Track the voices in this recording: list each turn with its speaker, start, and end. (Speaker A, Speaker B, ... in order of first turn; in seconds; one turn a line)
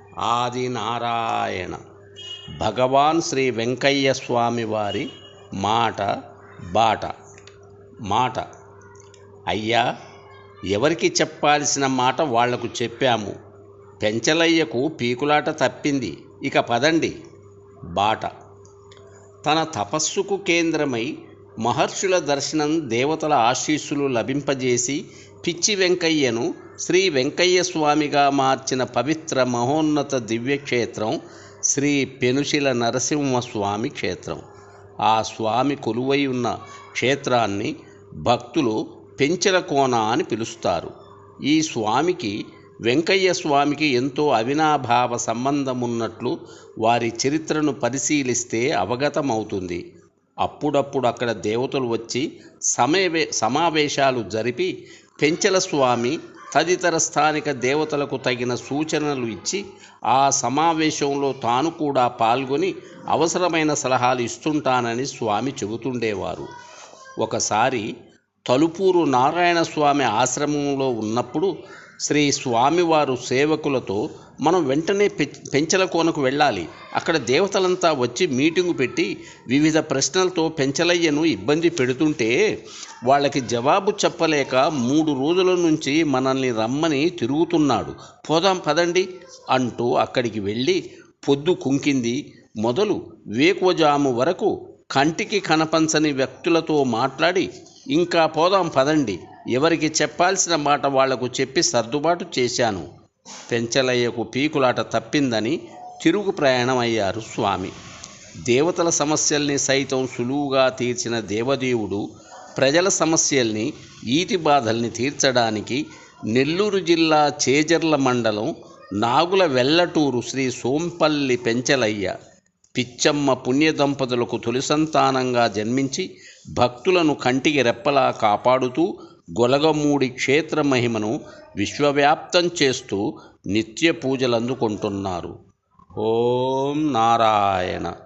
Speaker A: 0.2-1.8
Speaker A: 2.6-5.0
Speaker A: 5.6-6.1
Speaker A: 6.7-7.1
Speaker A: 8.1-8.4
Speaker A: 9.5-9.8
Speaker A: 10.7-13.3
Speaker A: 14.0-17.1
Speaker A: 17.9-18.3
Speaker A: 19.4-21.1
Speaker A: 21.6-31.2
Speaker A: 31.7-34.4
Speaker A: 35.1-37.7
Speaker A: 38.2-40.9
Speaker A: 41.5-42.3
Speaker A: 42.9-49.8
Speaker A: 50.4-59.6
Speaker A: 60.1-66.5
Speaker A: 67.2-67.9
Speaker A: 68.5-71.5
Speaker A: 72.0-82.3
Speaker A: 83.1-102.8
Speaker A: 103.5-107.7
Speaker A: 108.5-112.0
Speaker A: 112.5-118.5
Speaker A: 119.0-122.1
Speaker A: 122.7-126.0
Speaker A: 126.6-128.8
Speaker A: 129.4-133.0
Speaker A: 133.5-135.3
Speaker A: 136.0-137.9